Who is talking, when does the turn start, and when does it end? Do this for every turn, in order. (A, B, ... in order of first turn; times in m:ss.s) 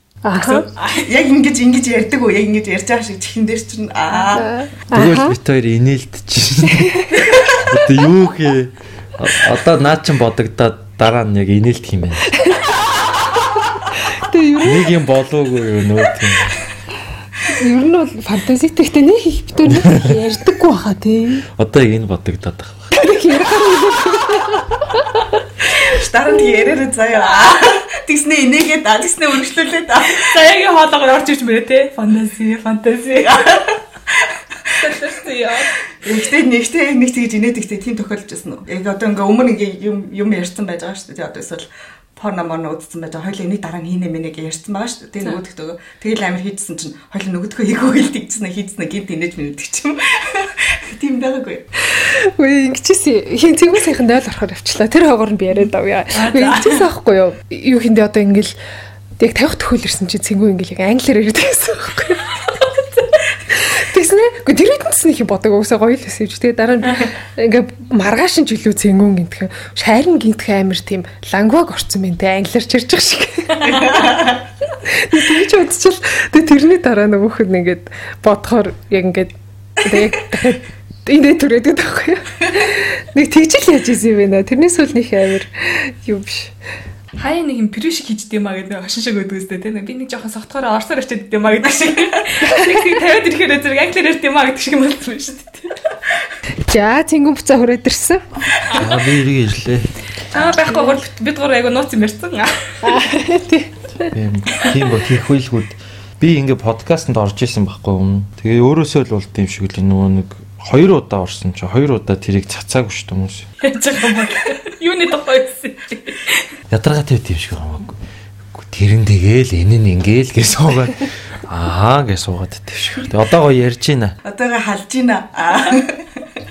0:00.2-0:00.7 A
0:00.4-0:01.0 B
0:00.8-0:04.5 C
0:04.1-0:04.4 B
0:04.3-0:05.4 A
0:04.9-0:12.4 D
0:06.7-0:07.3 A
0:14.0-0:15.0 A
0:14.6-0:16.6 D
0:17.4-0:21.5 A
0:19.7-0:20.1 D
0:21.6-0:23.0 D
0:22.9-0:25.4 A
0:25.6-0:30.4 C
0:30.1-0:33.6 B
0:33.2-0:35.0 C
0:34.8-0:35.8 B
0:35.9-0:51.7 C
0:51.9-0:58.6 A
0:56.1-0:56.9 B
0:59.2-1:02.8 A
1:03.5-1:14.1 A
1:13.6-1:14.4 C
1:14.9-1:26.5 A
1:27.2-1:35.8 B
1:36.7-1:38.2 A
1:38.7-1:39.9 D
1:40.3-1:43.0 B
1:40.3-1:41.0 A
1:42.8-1:44.1 A
1:44.1-1:53.5 D
1:53.6-1:56.4 B
1:56.7-1:58.0 D
1:58.5-2:04.2 D
2:04.2-2:06.2 C